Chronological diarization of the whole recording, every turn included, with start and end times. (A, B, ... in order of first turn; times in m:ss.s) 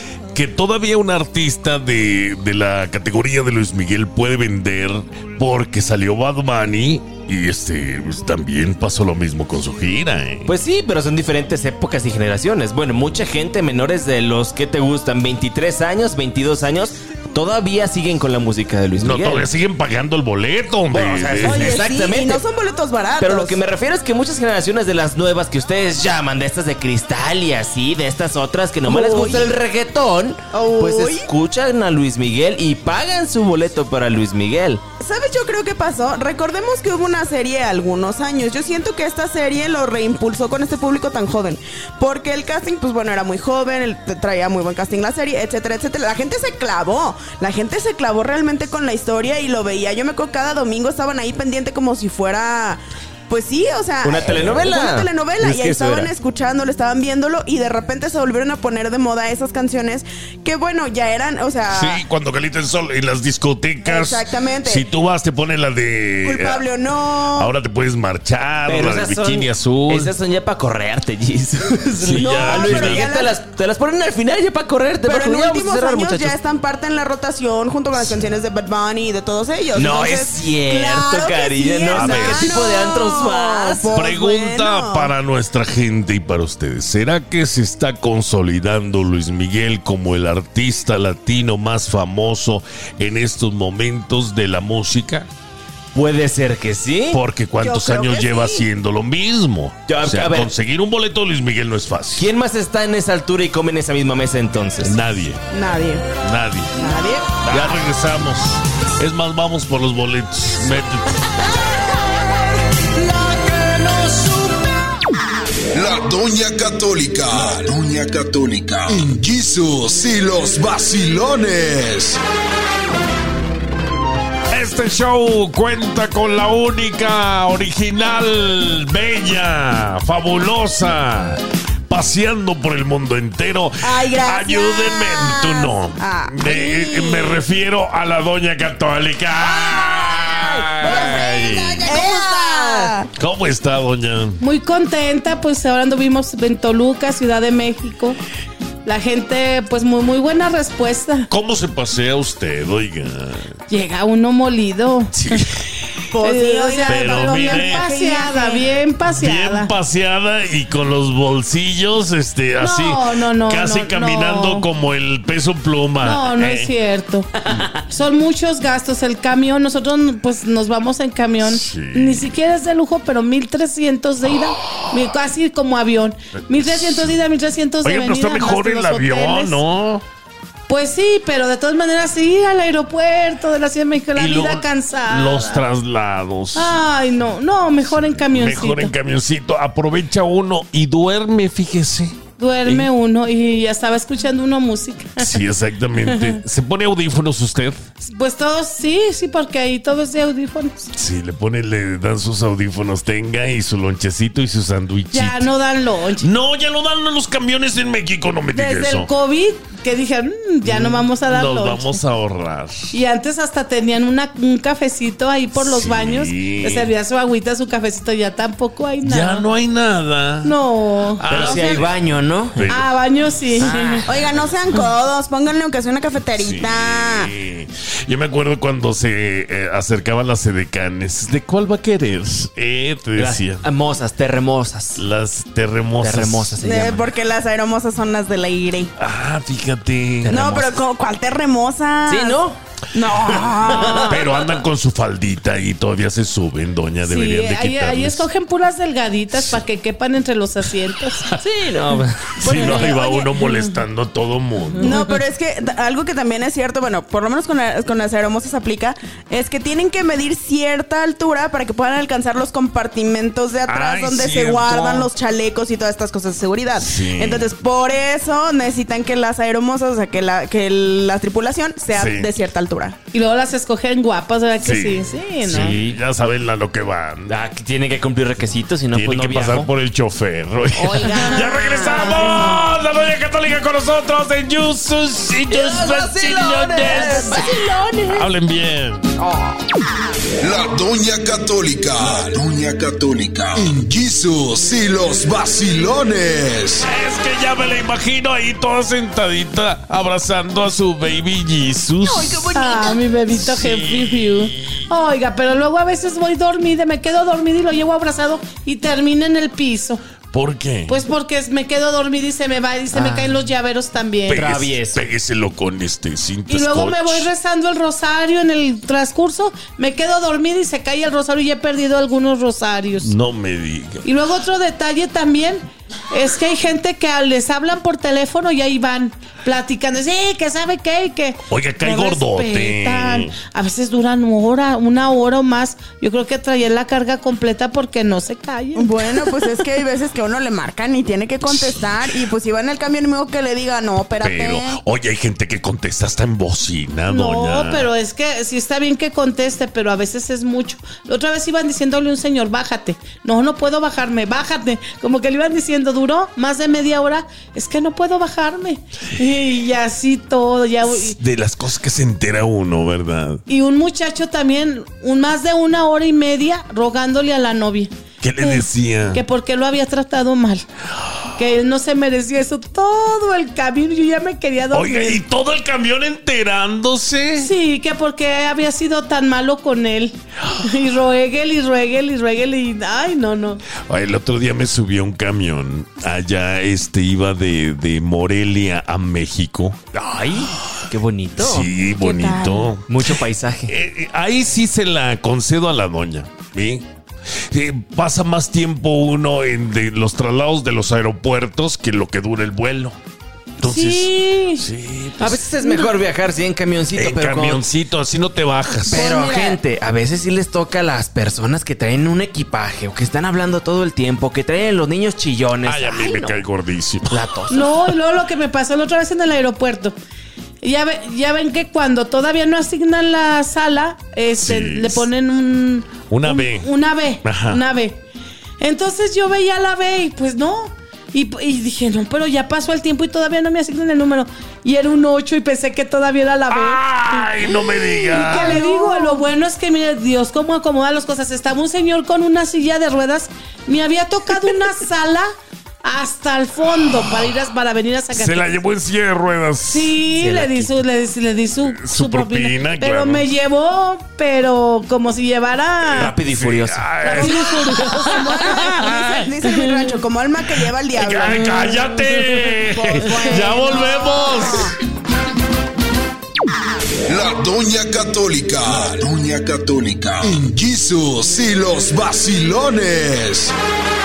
0:00.3-0:10.5 A
0:10.4-0:19.5 B
0:19.0-0:21.8 A
0:20.9-0:22.4 B
0:21.4-0:23.6 C
0:23.2-0:34.8 B
0:28.8-0:29.5 C
0:30.5-0:31.3 C
0:35.0-1:02.0 C
0:54.0-0:56.1 B
1:01.7-1:06.6 A
1:03.8-1:04.9 C
1:06.2-1:07.5 C
1:07.4-1:10.1 A
1:08.7-1:16.4 B
1:12.0-1:13.1 A
1:12.2-1:13.4 C
1:15.0-1:25.1 C
1:19.7-1:23.9 B
1:21.9-1:22.9 A
1:23.9-1:35.3 A
1:35.9-1:37.2 B
1:37.1-1:42.3 A
1:37.6-1:38.6 C
1:39.9-1:40.5 B
1:42.2-1:45.0 B
1:44.8-1:45.4 A
1:45.5-1:46.0 C
1:46.2-1:46.8 A
1:46.8-1:47.3 C
1:47.5-1:51.4 A
1:47.5-1:47.8 B
1:53.2-1:54.5 B
1:55.7-2:02.2 D
2:04.5-2:21.9 A
2:13.8-2:17.4 C
2:19.5-2:22.9 B
2:20.4-2:23.1 C
2:23.2-2:24.4 A
2:24.4-2:28.2 E
2:28.8-2:31.3 E
2:31.3-2:33.6 A
2:33.7-2:35.1 E
2:35.1-2:35.5 A
2:36.1-2:38.7 C
2:36.2-2:39.7 E
2:36.9-2:37.9 A
2:39.1-2:46.7 A
2:42.6-2:44.7 E
2:46.0-2:47.3 E
2:47.4-2:47.8 B
2:47.9-2:59.6 E
2:51.4-2:52.3 A
2:56.4-2:57.2 A
2:57.8-3:00.0 A
3:00.7-3:05.7 E
3:04.2-3:06.7 A
3:06.6-3:08.9 E
3:08.2-3:12.9 A
3:12.4-3:15.4 E
3:15.2-3:17.8 A
3:16.1-3:16.4 E
3:18.0-3:20.8 E
3:20.9-3:25.5 A
3:25.1-3:26.3 E
3:26.2-3:29.1 A
3:28.5-3:32.0 E
3:30.6-3:32.9 A
3:32.9-3:39.5 E
3:35.6-3:36.9 A
3:39.0-3:40.6 A
3:40.4-3:41.2 E
3:41.2-3:42.0 A
3:41.3-3:42.7 B
3:41.4-3:41.8 C
3:42.6-3:42.9 A
3:42.7-3:44.0 E
3:43.6-3:44.3 B
3:44.1-3:47.3 C
3:46.4-3:53.6 A
3:53.2-3:55.0 B
3:55.0-3:56.6 A
3:56.0-3:57.1 B
3:56.6-3:58.9 C
3:59.0-4:00.5 A
4:00.2-4:00.7 B
4:00.3-4:02.4 C
4:02.1-4:02.6 B
4:02.9-4:04.3 C
4:03.3-4:08.2 A
4:03.6-4:04.5 B
4:07.1-4:11.3 E
4:11.4-4:12.9 B
4:12.4-4:15.0 A
4:12.4-4:13.3 C
4:13.4-4:13.7 E
4:14.8-4:33.0 C
4:23.7-4:25.1 A
4:26.8-4:27.4 A
4:31.9-4:32.3 A
4:33.1-4:35.8 E
4:34.6-4:37.3 A
4:35.5-4:36.0 B
4:37.3-4:39.7 B
4:38.9-4:47.4 A
4:40.8-4:42.7 C
4:45.5-4:47.6 B
4:46.8-4:48.3 C
4:48.1-4:49.1 A
4:49.2-4:49.6 C
4:50.4-4:56.8 D
4:56.8-5:02.6 A
5:02.1-5:02.9 B
5:02.5-5:10.0 E
5:03.3-5:04.8 A
5:10.3-5:11.0 A
5:10.9-5:14.5 E
5:12.9-5:13.4 B
5:14.3-5:17.3 A
5:14.3-5:15.1 B
5:16.5-5:23.1 E
5:23.0-5:24.0 A
5:24.0-5:39.3 E
5:31.5-5:33.3 A
5:38.8-5:44.8 C
5:44.2-5:47.9 A
5:47.1-6:01.2 E
6:00.9-6:03.4 A
6:03.5-6:10.6 E
6:08.2-6:09.2 A
6:11.4-6:15.2 E
6:14.7-6:17.5 A
6:17.4-6:23.6 E
6:23.9-6:29.8 A
6:29.9-6:31.7 B
6:31.4-6:33.2 A
6:32.0-6:32.6 C
6:32.0-6:32.7 E
6:32.9-6:33.7 B
6:33.7-6:36.9 A
6:37.5-6:43.0 A
6:43.6-6:45.4 A
6:43.6-6:44.7 E
6:45.2-6:47.6 B
6:45.3-6:45.9 E
6:46.9-6:49.1 A
6:48.9-6:49.6 C
6:48.9-6:56.4 B
6:55.6-6:57.3 A
6:57.1-6:57.7 B
6:57.5-7:00.0 E
7:00.6-7:08.0 E
7:04.4-7:05.1 A
7:06.1-7:06.7 A
7:07.2-7:07.6 A
7:08.6-7:25.3 E
7:16.5-7:18.6 A
7:18.2-7:19.2 C
7:25.8-7:28.5 E
7:28.1-7:29.9 A
7:29.7-7:36.1 E
7:30.1-7:30.7 B
7:31.7-7:33.3 A
7:35.9-7:36.9 B
7:36.1-7:39.3 A
7:37.0-7:41.7 C
7:37.0-7:38.8 E
7:39.4-7:39.9 E
7:41.0-7:44.8 A
7:42.7-7:44.8 C
7:47.1-7:53.5 D